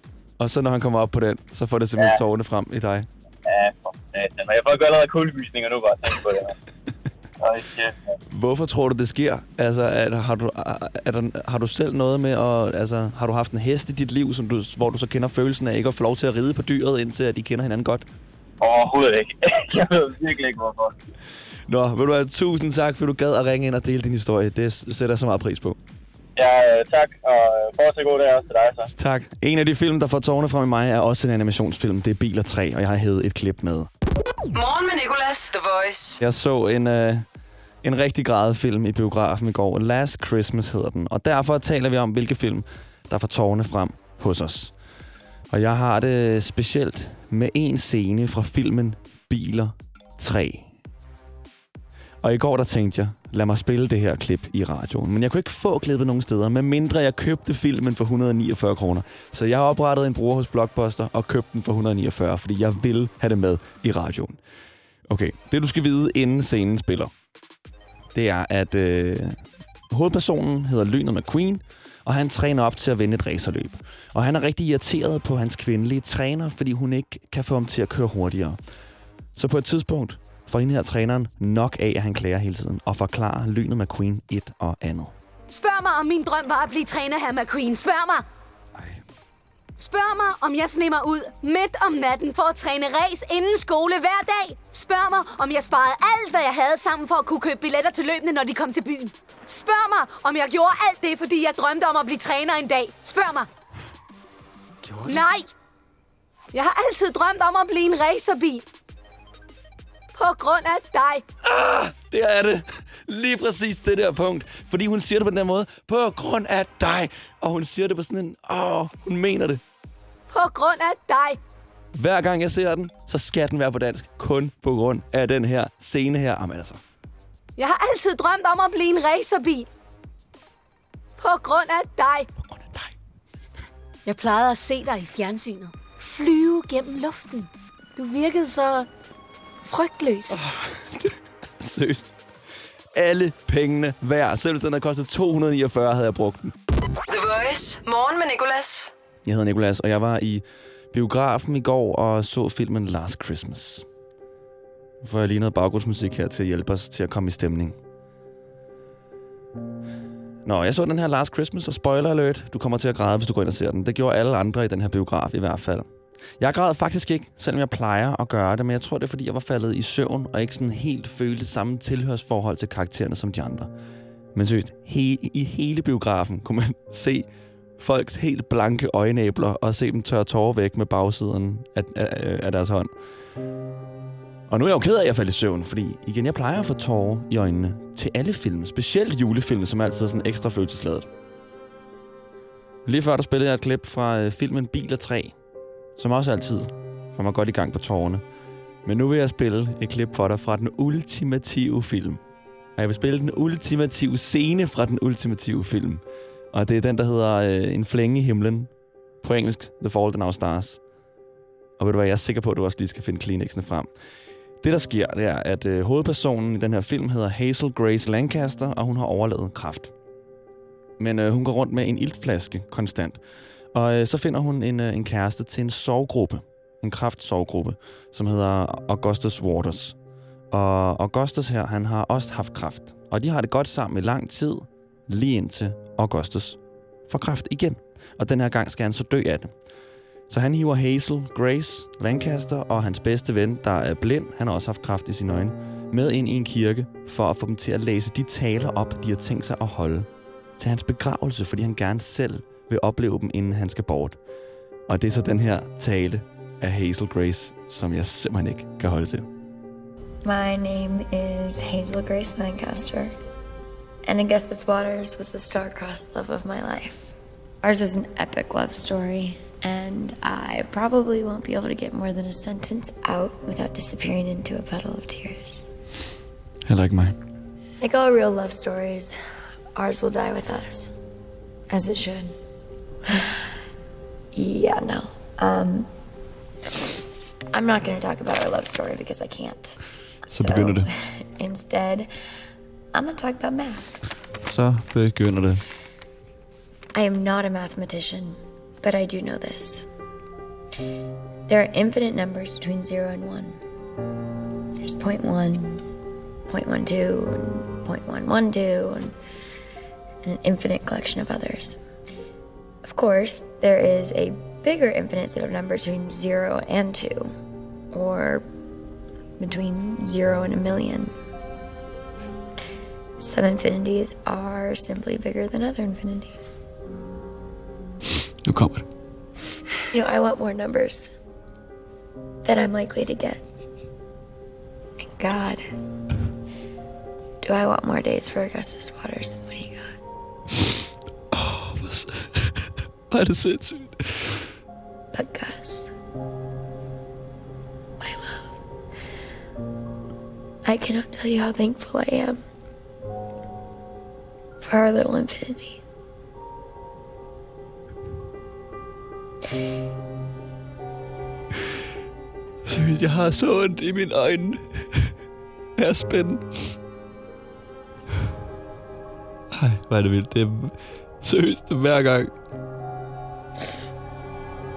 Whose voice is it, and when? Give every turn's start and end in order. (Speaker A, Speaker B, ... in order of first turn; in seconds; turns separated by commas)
Speaker A: 0.4-3.1, Speaker B: 3.5-6.5, Speaker B: 7.4-8.2, Speaker A: 8.3-18.1, Speaker B: 18.6-20.9, Speaker A: 21.7-25.8, Speaker B: 26.4-28.9, Speaker A: 28.9-33.9, Speaker C: 34.5-36.2, Speaker A: 36.2-37.3, Speaker A: 37.8-44.7, Speaker A: 45.5-50.7, Speaker A: 52.2-64.4, Speaker A: 65.1-67.1, Speaker A: 68.1-78.6, Speaker A: 79.3-85.1, Speaker D: 85.5-88.3, Speaker D: 89.8-103.5, Speaker D: 105.0-105.5, Speaker D: 106.5-108.7, Speaker D: 110.2-111.2, Speaker A: 111.4-119.6, Speaker D: 120.3-121.4, Speaker A: 121.9-126.8, Speaker D: 127.6-129.7, Speaker D: 131.2-132.3, Speaker A: 132.4-132.9, Speaker D: 134.1-138.9, Speaker D: 139.6-140.4, Speaker A: 140.3-142.1, Speaker A: 142.9-146.5, Speaker C: 147.1-148.9, Speaker A: 149.2-153.9, Speaker A: 155.0-157.8, Speaker A: 160.4-165.9, Speaker A: 166.4-173.7, Speaker A: 174.3-182.9, Speaker A: 184.5-191.1, Speaker A: 192.8-195.3, Speaker A: 196.0-198.2, Speaker A: 198.8-202.2, Speaker A: 202.8-208.7, Speaker A: 209.2-210.8, Speaker A: 211.8-213.9, Speaker A: 214.6-219.9, Speaker A: 221.0-223.2, Speaker A: 223.7-230.0, Speaker A: 230.5-239.5, Speaker A: 240.3-254.2, Speaker A: 254.9-259.3, Speaker E: 260.2-263.1, Speaker E: 264.1-275.7, Speaker A: 276.7-277.1, Speaker E: 277.8-279.2, Speaker E: 279.8-280.9, Speaker E: 281.7-282.4, Speaker E: 283.1-283.5, Speaker E: 284.3-285.9, Speaker E: 287.5-292.1, Speaker A: 290.3-290.9, Speaker E: 292.9-294.0, Speaker A: 294.4-295.6, Speaker E: 296.9-299.9, Speaker E: 301.5-303.6, Speaker E: 304.8-305.8, Speaker E: 306.5-309.1, Speaker E: 310.2-311.8, Speaker E: 312.8-317.3, Speaker E: 317.9-318.5, Speaker E: 319.4-321.1, Speaker E: 323.2-326.6, Speaker A: 328.4-328.9, Speaker E: 329.9-331.1, Speaker E: 332.4-333.4, Speaker E: 335.0-335.6, Speaker E: 337.4-339.9, Speaker A: 341.3-344.4, Speaker E: 345.1-345.9, Speaker E: 348.0-348.5, Speaker E: 350.6-352.4, Speaker E: 354.6-355.8, Speaker A: 362.7-365.1, Speaker A: 365.8-366.8, Speaker A: 369.5-372.3